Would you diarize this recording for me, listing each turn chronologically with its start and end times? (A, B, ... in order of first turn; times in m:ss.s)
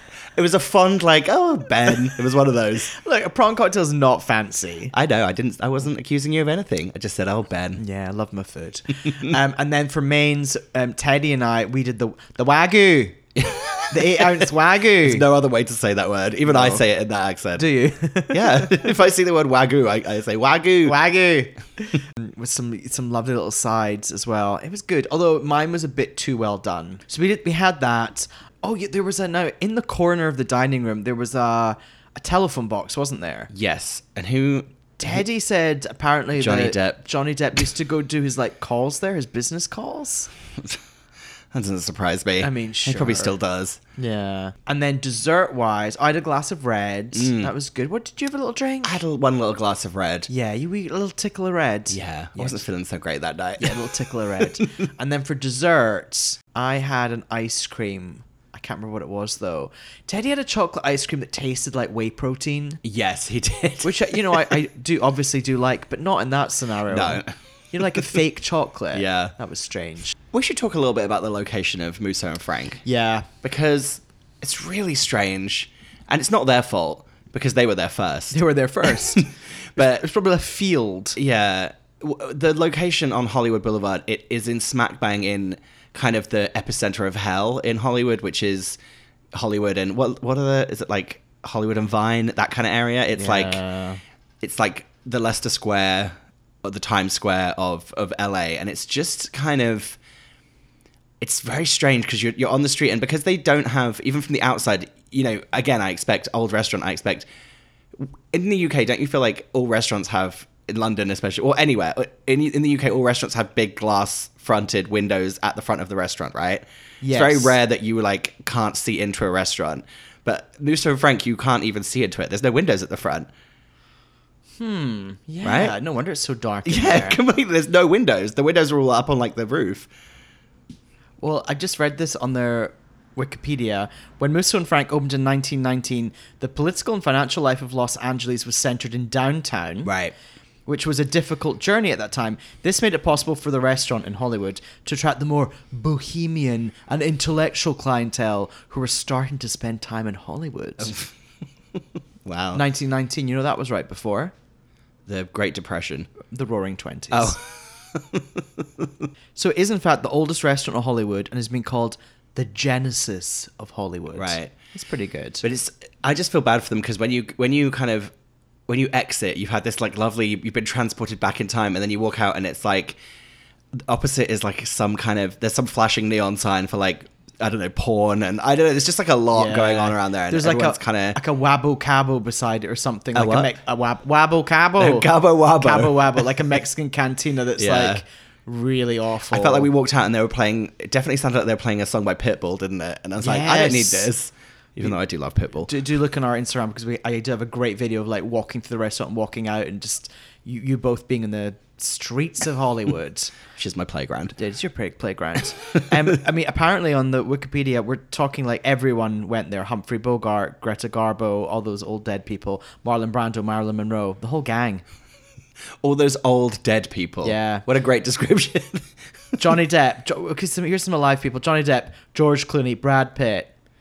0:00.4-0:02.9 A
0:02.9-0:04.9 B
0:04.9-0:07.8 A
0:07.8-0:13.2 B
0:13.4-0:14.4 A
0:13.9-0:15.2 B
0:15.0-0:17.7 A
0:16.5-0:16.8 B
0:17.6-0:18.9 B
0:18.3-0:21.0 A
0:20.8-0:33.5 B
0:33.5-0:35.2 A
0:35.0-0:40.3 B
0:36.4-0:37.0 A
0:41.5-0:43.8 A
0:42.4-0:43.3 B
0:44.0-0:49.0 B
0:47.1-0:47.5 A
0:48.8-0:50.3 A
0:50.3-0:52.6 B
0:51.9-0:54.6 A
0:53.6-1:02.8 B
1:02.8-1:04.6 A
1:03.8-1:10.1 B
1:06.9-1:08.0 A
1:08.9-1:09.3 A
1:10.3-1:12.8 A
1:12.8-1:13.3 B
1:13.4-1:19.2 A
1:18.3-1:21.2 B
1:19.8-1:20.0 A
1:21.2-1:28.8 A
1:29.3-1:33.6 A
1:33.2-1:34.0 B
1:34.4-1:40.0 A
1:41.2-1:47.3 A
1:48.0-2:03.3 A
1:57.0-1:57.6 B
2:04.6-2:07.2 B
2:05.4-2:05.8 A
2:06.6-2:09.9 A
2:11.2-2:19.9 B
2:19.8-2:20.1 A
2:20.7-2:31.0 B
2:30.8-2:31.1 A
2:32.2-2:32.6 A
2:32.5-2:34.3 B
2:35.1-2:36.1 A
2:36.3-2:37.4 B
2:37.1-2:38.9 A
2:39.4-2:45.4 B
2:44.1-2:44.5 A
2:45.4-2:48.1 A
2:48.7-2:53.0 A
2:53.8-3:01.2 A
2:59.3-3:09.7 B
3:03.2-3:03.6 A
3:04.8-3:06.2 A
3:07.6-3:08.0 A
3:09.3-3:15.7 A
3:13.2-3:14.1 B
3:15.7-3:23.3 B
3:23.6-3:24.4 A
3:24.4-3:34.8 B
3:35.8-3:38.9 A
3:37.2-3:37.6 B
3:39.4-3:43.5 B